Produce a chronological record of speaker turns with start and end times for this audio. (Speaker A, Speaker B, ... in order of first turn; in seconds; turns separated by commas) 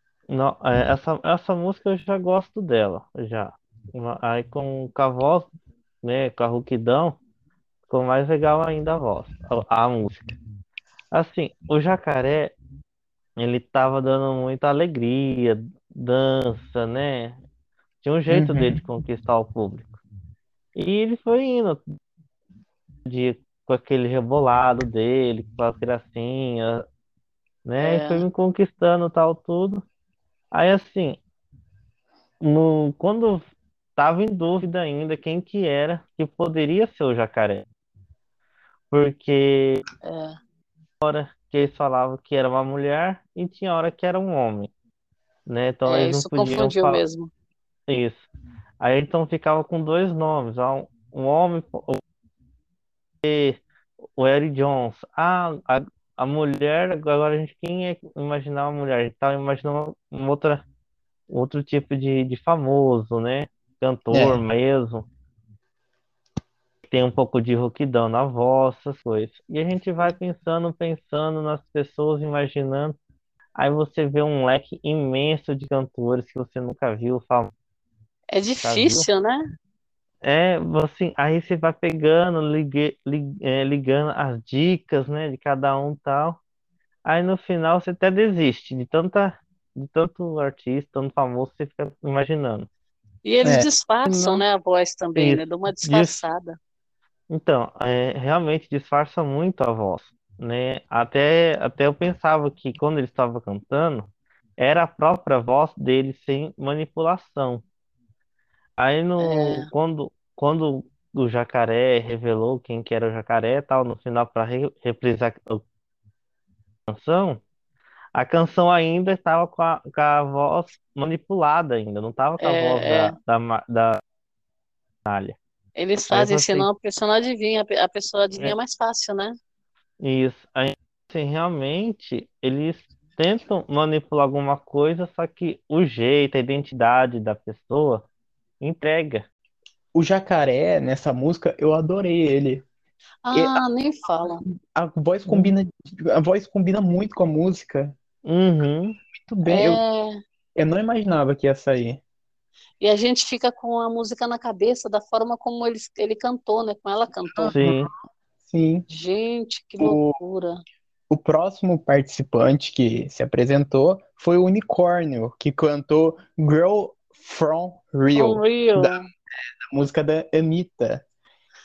Speaker A: 0.3-5.5, Speaker A: 6.0-7.2, Speaker A: 7.9-10.4, Speaker A: 11.1-12.6, Speaker A: 13.4-17.4, Speaker A: 18.0-20.0, Speaker B: 18.3-18.8, Speaker A: 20.8-22.0, Speaker A: 23.1-26.9, Speaker A: 27.6-29.8, Speaker C: 27.8-28.2, Speaker A: 30.5-31.2, Speaker A: 32.4-33.4, Speaker A: 34.0-37.7, Speaker A: 38.9-39.8, Speaker C: 40.0-40.4, Speaker A: 41.0-44.7, Speaker A: 45.5-47.0, Speaker C: 45.9-47.3, Speaker A: 47.9-48.3, Speaker A: 48.8-52.0, Speaker A: 53.2-53.6, Speaker A: 54.2-60.6, Speaker A: 61.3-65.1, Speaker B: 64.1-64.4, Speaker A: 66.9-73.0, Speaker A: 73.6-77.5, Speaker C: 78.3-79.4, Speaker A: 78.6-79.1, Speaker A: 80.2-86.4, Speaker A: 87.1-92.7, Speaker C: 93.2-96.6, Speaker A: 94.1-94.4, Speaker A: 95.2-96.2, Speaker A: 97.3-107.6, Speaker A: 108.8-115.6, Speaker C: 109.2-109.7, Speaker A: 116.9-117.4, Speaker A: 118.2-124.0, Speaker C: 122.4-123.2, Speaker A: 125.1-125.4, Speaker C: 125.8-129.3, Speaker A: 126.1-126.7, Speaker A: 130.0-138.1, Speaker A: 138.6-139.2, Speaker B: 139.9-142.7, Speaker C: 143.3-144.4, Speaker B: 143.3-143.6, Speaker B: 144.5-148.0, Speaker A: 148.2-149.0, Speaker B: 149.2-149.8, Speaker C: 149.5-150.2, Speaker B: 150.6-152.0, Speaker C: 152.8-157.6, Speaker B: 157.3-158.9, Speaker A: 157.5-157.9, Speaker C: 158.9-160.6, Speaker B: 159.8-160.1, Speaker B: 161.1-169.0, Speaker C: 168.2-169.0, Speaker B: 169.7-171.0